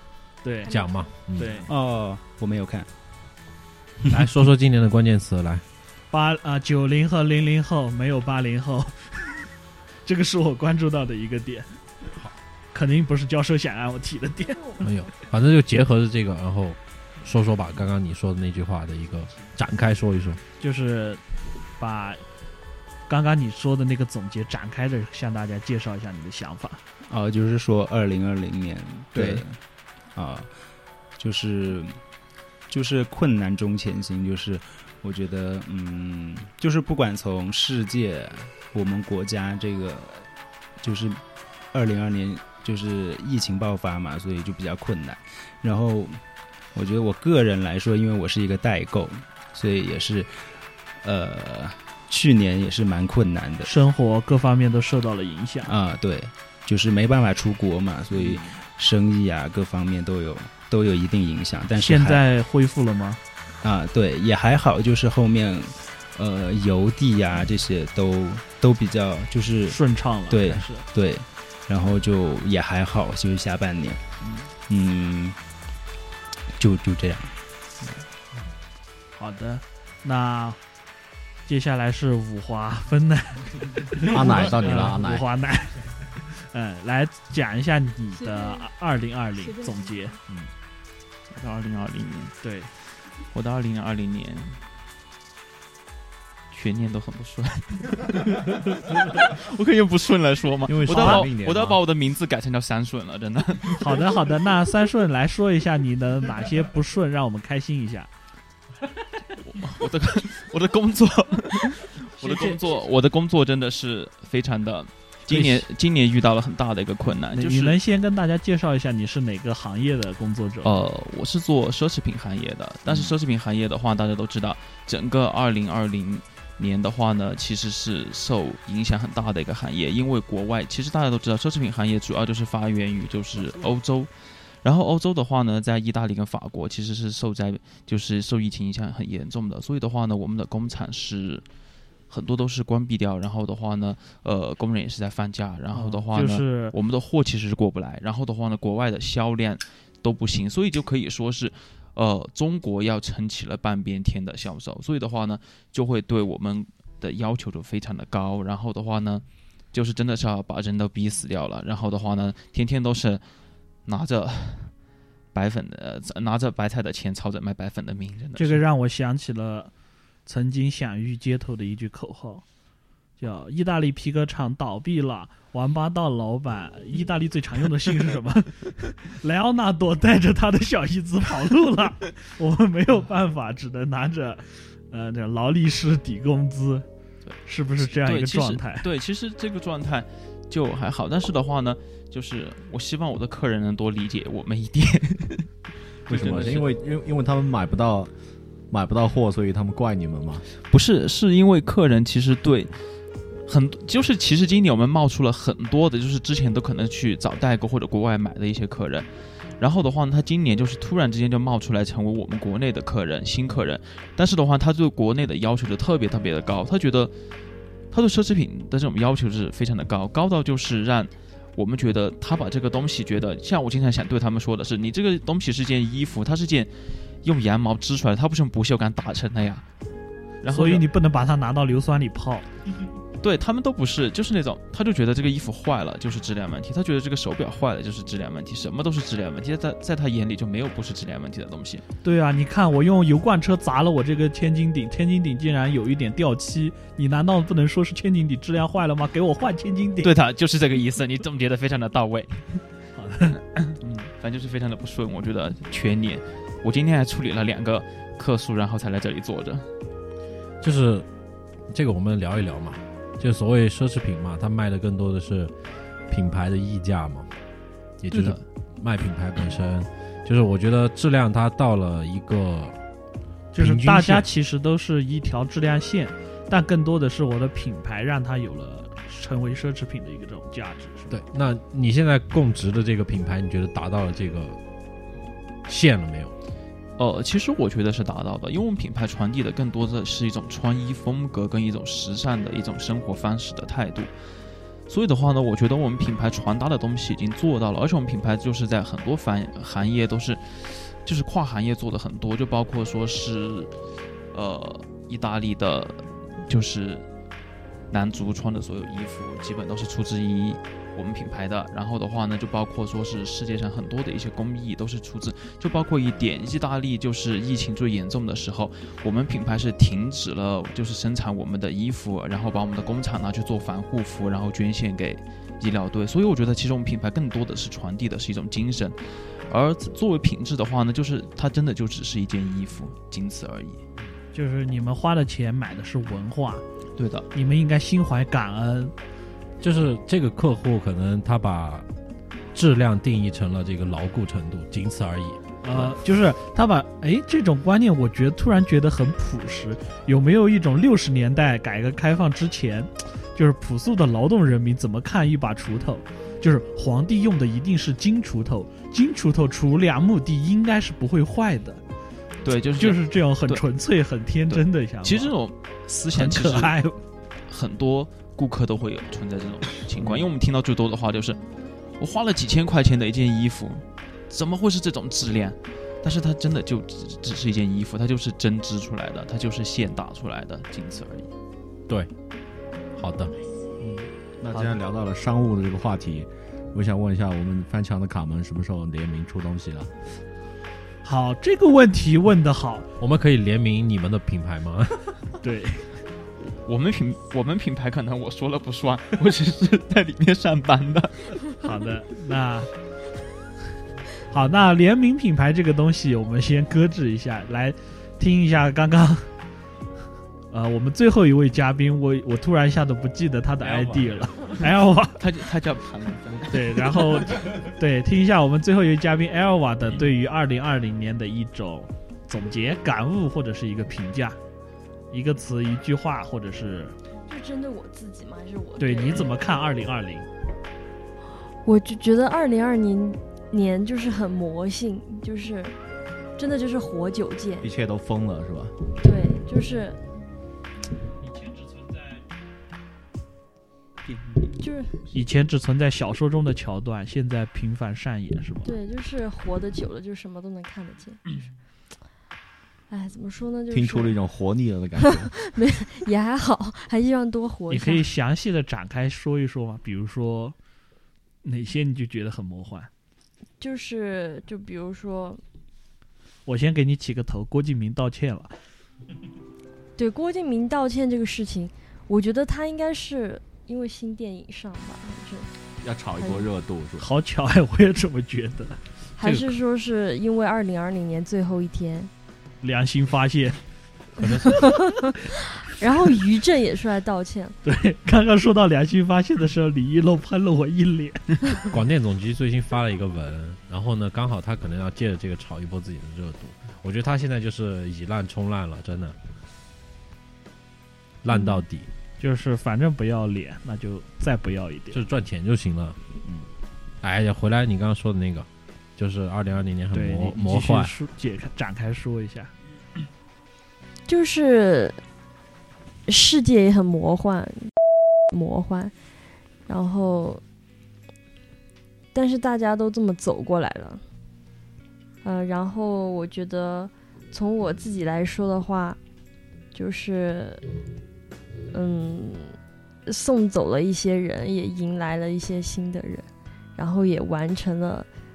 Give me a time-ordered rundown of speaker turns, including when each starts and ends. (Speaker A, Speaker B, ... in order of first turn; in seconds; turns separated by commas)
Speaker A: 0.4-0.8, Speaker B: 0.7-1.6, Speaker A: 1.4-1.7, Speaker C: 1.7-2.9, Speaker B: 4.1-5.6, Speaker A: 6.1-9.4, Speaker A: 10.1-11.7, Speaker A: 12.7-14.7, Speaker B: 14.8-20.4, Speaker A: 20.6-21.2, Speaker A: 21.8-22.2, Speaker A: 23.1-26.8, Speaker C: 27.1-29.6, Speaker D: 29.1-29.4, Speaker C: 30.1-30.6, Speaker C: 31.2-32.0, Speaker C: 32.7-40.3, Speaker C: 40.8-46.2, Speaker C: 46.7-50.5, Speaker C: 51.0-53.7, Speaker A: 53.6-55.7, Speaker C: 55.7-62.2, Speaker A: 58.1-58.6, Speaker A: 61.8-63.2, Speaker C: 63.6-74.0, Speaker A: 69.7-70.9, Speaker A: 74.2-74.5, Speaker C: 74.7-75.4, Speaker C: 76.6-78.0, Speaker A: 79.2-80.6, Speaker A: 81.5-90.5, Speaker D: 84.0-85.2, Speaker E: 88.3-88.7, Speaker F: 91.3-92.4, Speaker A: 92.4-92.7, Speaker F: 93.3-94.6, Speaker F: 96.5-104.0, Speaker D: 100.7-101.8, Speaker A: 100.9-101.3, Speaker A: 103.8-108.1, Speaker F: 109.4-117.8, Speaker A: 112.2-112.6, Speaker A: 115.3-115.6, Speaker A: 117.3-120.8, Speaker F: 120.6-141.4, Speaker A: 122.9-123.1, Speaker F: 142.1-163.2, Speaker A: 145.7-146.8, Speaker F: 163.8-164.8, Speaker F: 165.3-168.6, Speaker A: 168.4-169.7, Speaker A: 170.3-172.4, Speaker A: 173.2-186.9, Speaker F: 187.3-195.5, Speaker A: 187.4-188.9, Speaker F: 196.1-196.7, Speaker D: 196.1-198.1, Speaker D: 198.7-200.4, Speaker F: 200.7-202.7, Speaker F: 203.5-209.1, Speaker F: 209.6-217.1, Speaker F: 217.9-226.7, Speaker F: 227.2-229.7, Speaker F: 230.4-230.8, Speaker A: 230.5-232.5, Speaker F: 233.2-241.8, Speaker A: 242.0-250.1, Speaker F: 250.0-252.6, Speaker A: 252.9-254.1, Speaker F: 254.1-259.7, Speaker B: 260.6-261.1, Speaker B: 261.7-265.5, Speaker B: 266.1-267.3, Speaker B: 268.0-272.8, Speaker F: 268.1-268.4, Speaker A: 273.5-281.2, Speaker B: 273.6-274.3, Speaker B: 281.1-284.6, Speaker B: 285.7-286.3, Speaker F: 287.0-294.1, Speaker F: 294.9-303.7, Speaker F: 304.3-307.1, Speaker F: 307.9-333.8, Speaker A: 334.3-336.6, Speaker F: 337.0-337.3, Speaker A: 337.3-338.9, Speaker B: 339.6-341.9, Speaker B: 342.5-345.9, Speaker A: 345.6-361.8, Speaker F: 362.4-363.6, Speaker A: 362.8-365.4, Speaker F: 364.5-366.7, Speaker A: 366.1-367.0, Speaker F: 367.5-371.4, Speaker A: 370.0-370.3, Speaker F: 372.0-381.3, Speaker B: 383.0-383.4, Speaker A: 383.8-384.7, Speaker D: 384.4-389.9, Speaker A: 391.0-392.9, Speaker B: 393.0-395.1, Speaker A: 395.4-395.9, Speaker F: 396.5-401.4, Speaker A: 401.6-402.7, Speaker A: 404.3-409.3, Speaker A: 410.5-415.2, Speaker F: 413.7-417.4, Speaker A: 416.5-424.4, Speaker A: 425.1-426.9, Speaker E: 427.3-429.3, Speaker A: 428.8-430.3, Speaker E: 431.6-435.8, Speaker E: 436.4-437.7, Speaker D: 437.6-438.7, Speaker E: 439.0-440.0, Speaker A: 441.6-441.9, Speaker E: 444.6-445.1, Speaker A: 445.1-448.7, Speaker E: 448.6-451.4, Speaker E: 452.9-454.2, Speaker D: 453.7-455.3, Speaker E: 455.0-458.1, Speaker A: 457.7-460.6, Speaker A: 461.4-462.9, Speaker E: 463.6-465.4, Speaker A: 466.5-468.5, Speaker E: 470.0-475.5, Speaker D: 475.8-477.1, Speaker E: 476.2-476.5, Speaker A: 477.0-478.8, Speaker E: 479.2-482.1, Speaker B: 479.2-479.5, Speaker A: 482.6-483.6, Speaker B: 484.2-484.7, Speaker E: 484.2-487.6, Speaker A: 487.6-491.4, Speaker B: 491.7-499.2, Speaker B: 501.2-501.9, Speaker E: 501.3-501.6, Speaker A: 502.2-505.0, Speaker B: 504.9-506.0, Speaker B: 507.0-510.9, Speaker A: 509.9-512.5, Speaker E: 514.1-515.0, Speaker E: 516.1-517.7, Speaker E: 518.3-518.9, Speaker E: 519.7-520.4, Speaker E: 522.1-524.0, Speaker E: 525.2-529.0, Speaker E: 529.7-530.7, Speaker E: 531.7-538.1